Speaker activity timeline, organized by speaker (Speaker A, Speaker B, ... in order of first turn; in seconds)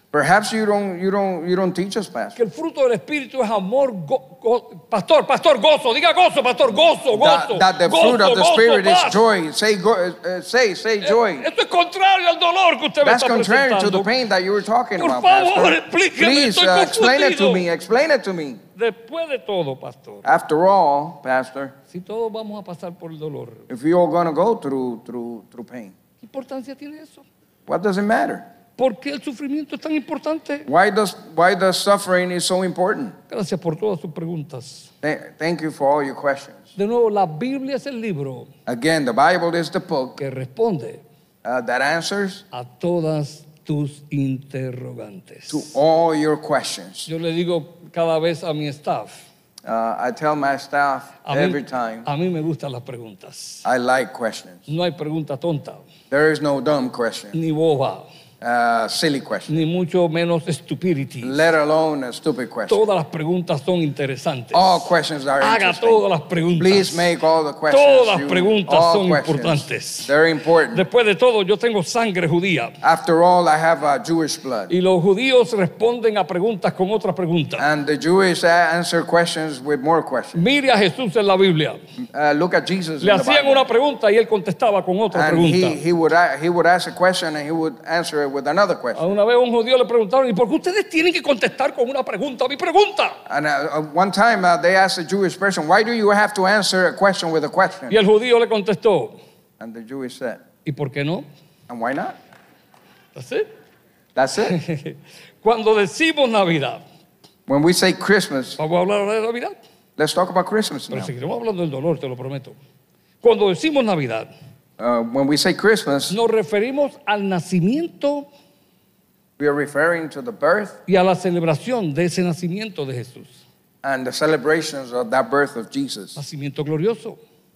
Speaker A: 0.1-2.4, 7.1-11.5, 13.0-18.6, 20.2-21.7, 23.7-25.9, 27.7-28.4, 30.7-33.1, 35.0-36.6, 38.6-40.2, 41.4-42.4, 45.5-47.1, 49.6-52.1, 53.6-54.7, 56.1-57.3, 58.4-59.5, 61.2-62.8, 64.5-66.0, 66.5-70.8, 72.8-74.7, 77.6-80.5, 82.1-83.7, 85.1-89.1, 93.3-98.0, 99.6-100.4, 101.7-102.2, 104.1-104.6, 107.5-108.6, 110.0-111.1, 114.8-116.2, 119.4-120.8, 123.8-126.2
Speaker B: 2.4-9.2, 11.0-14.1, 15.0-17.6, 18.8-20.3, 21.9-23.7, 26.2-27.2, 28.8-30.7, 33.3-34.9, 36.8-38.5, 40.2-41.0, 42.5-45.7, 47.0-49.2, 51.2-53.6, 54.7-55.8, 57.3-58.1, 59.5-61.4, 62.7-64.9, 65.4-67.1, 67.7-70.1, 70.7-72.8, 74.7-77.7, 80.3-81.8, 83.0-85.8, 88.9-93.2, 97.9-99.2, 100.6-101.2, 103.1-103.5, 104.5-106.8, 108.6-109.5, 110.9-112.5, 113.2-114.3, 116.1-118.3, 120.9-123.4, 126.2-127.2